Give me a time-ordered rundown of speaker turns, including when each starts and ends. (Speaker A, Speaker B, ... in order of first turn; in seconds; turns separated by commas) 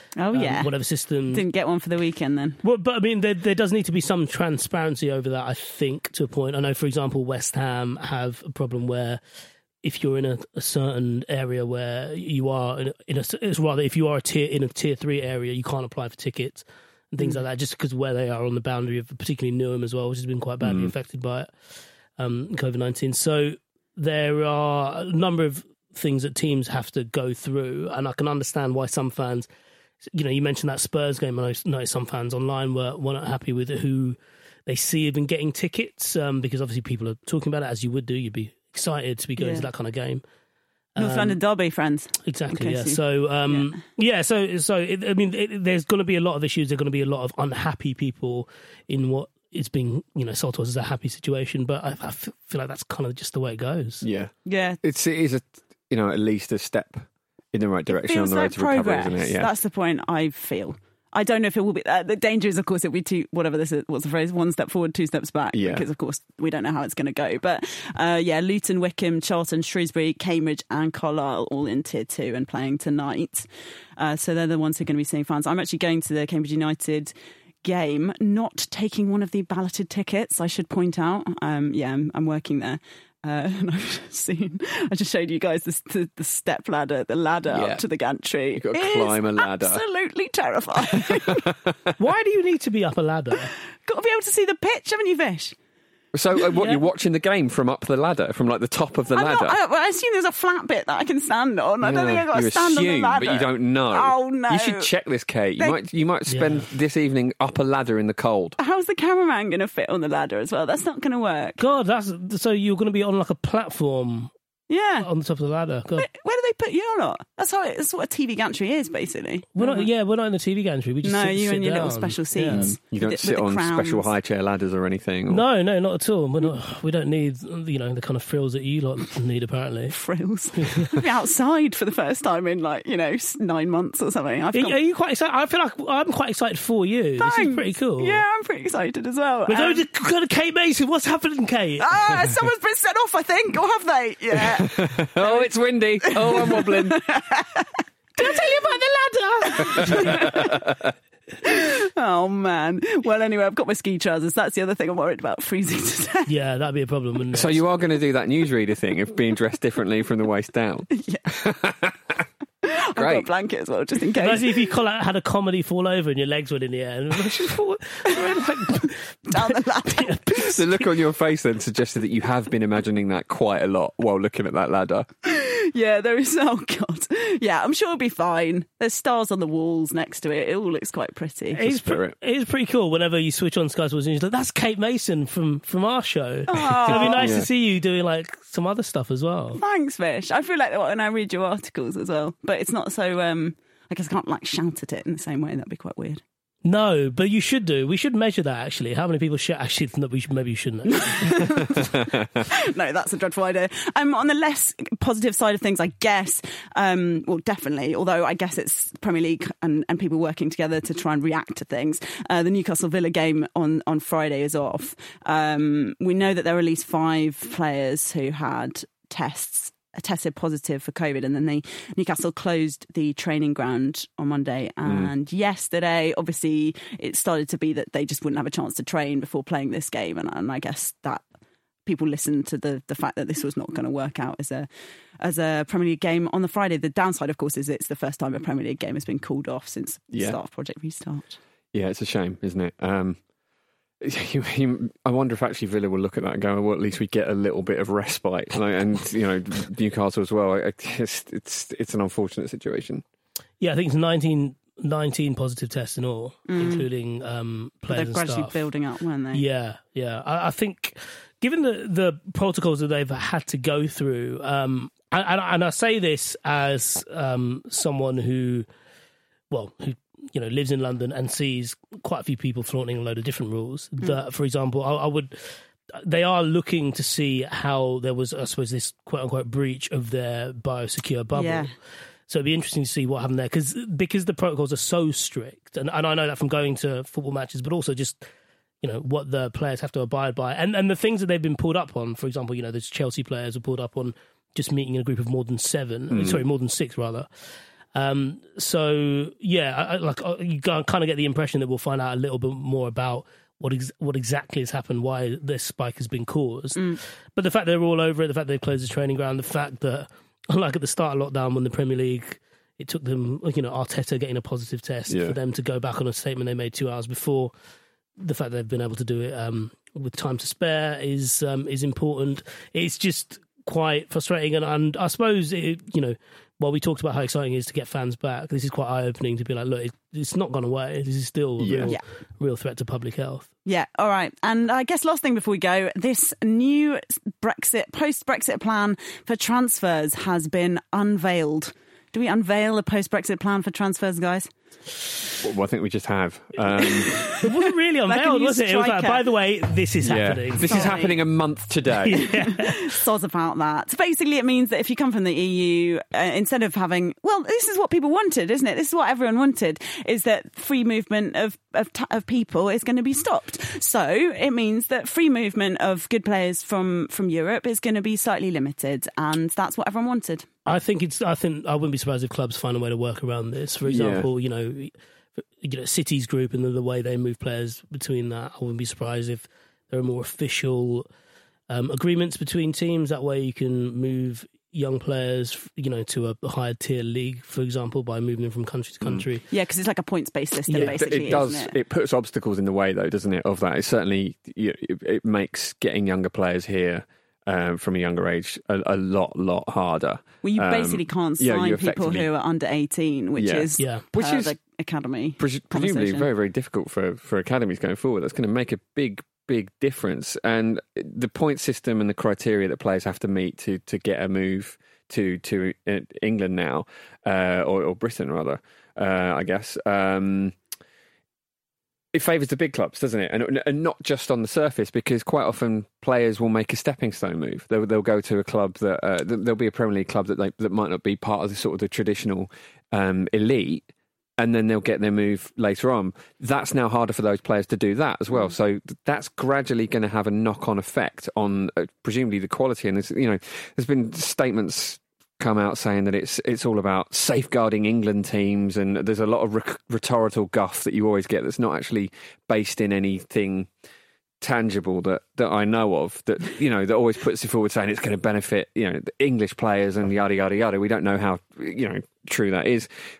Speaker A: 0.2-0.7, Speaker B: 0.3-1.4, Speaker A: 1.3-2.6, Speaker B: 2.6-9.2, Speaker B: 9.8-21.5, Speaker C: 20.6-20.9, Speaker B: 22.2-29.5, Speaker B: 30.0-40.2, Speaker A: 39.4-39.7, Speaker B: 41.0-41.4, Speaker A: 41.0-43.7, Speaker B: 42.2-54.0, Speaker C: 54.0-59.5, Speaker A: 54.5-54.8, Speaker A: 58.0-91.5, Speaker C: 65.5-65.8, Speaker C: 87.5-87.8, Speaker C: 88.5-89.8, Speaker C: 90.9-92.0, Speaker B: 92.0-93.5, Speaker A: 93.9-95.6, Speaker C: 96.1-99.6, Speaker A: 99.1-104.9, Speaker C: 101.8-108.6, Speaker B: 106.3-106.6, Speaker A: 108.6-111.6, Speaker B: 111.6-114.3, Speaker A: 114.7-115.1, Speaker B: 115.0-116.1, Speaker A: 116.0-119.9, Speaker B: 119.6-122.7, Speaker A: 121.0-124.1, Speaker C: 122.5-125.5, Speaker B: 125.3-130.0, Speaker A: 129.9-134.8, Speaker B: 130.6-130.9, Speaker B: 134.5-138.2, Speaker A: 137.2-139.8, Speaker B: 139.5-141.9, Speaker A: 141.8-150.6, Speaker C: 144.4-147.0, Speaker C: 149.7-150.9, Speaker A: 151.4-156.3, Speaker B: 156.3-157.6, Speaker C: 157.3-162.2, Speaker A: 160.9-161.3, Speaker A: 162.6-164.6, Speaker C: 163.0-163.3, Speaker B: 164.2-170.8, Speaker A: 168.1-168.4, Speaker A: 169.3-170.4, Speaker C: 170.3-175.1, Speaker A: 175.2-181.6, Speaker B: 181.5-189.6, Speaker C: 181.7-182.1, Speaker A: 186.5-187.4, Speaker C: 186.9-187.5, Speaker A: 189.6-196.2, Speaker B: 196.7-201.5, Speaker A: 201.0-201.9, Speaker C: 201.8-202.4, Speaker A: 202.5-231.2, Speaker C: 224.8-225.1, Speaker A: 231.9-234.7, Speaker A: 235.2-241.4, Speaker C: 240.1-240.4, Speaker C: 241.7-243.2, Speaker C: 244.0-253.0, Speaker B: 253.6-258.6, Speaker A: 256.5-256.9, Speaker A: 257.9-259.4, Speaker B: 259.3-268.7, Speaker B: 269.5-281.7, Speaker A: 281.3-281.7, Speaker B: 282.3-288.2, Speaker B: 288.8-297.3, Speaker C: 296.1-296.4, Speaker B: 297.9-317.5, Speaker C: 315.1-315.4, Speaker B: 318.2-333.5, Speaker C: 331.6-331.9, Speaker A: 333.7-344.5, Speaker C: 345.4-347.2, Speaker A: 346.8-347.5, Speaker B: 347.4-351.0, Speaker A: 348.1-349.2, Speaker C: 350.0-352.3, Speaker A: 350.6-351.2, Speaker B: 352.0-352.9, Speaker A: 352.2-370.5, Speaker B: 370.7-374.9, Speaker C: 373.9-374.3, Speaker B: 375.6-381.1, Speaker B: 381.7-389.4, Speaker A: 389.5-391.8, Speaker B: 390.7-391.4, Speaker C: 390.8-402.3, Speaker A: 400.4-406.3, Speaker C: 403.4-404.5, Speaker B: 403.8-404.0, Speaker C: 405.4-420.6, Speaker C: 422.1-433.9, Speaker C: 434.4-453.7, Speaker C: 454.4-462.9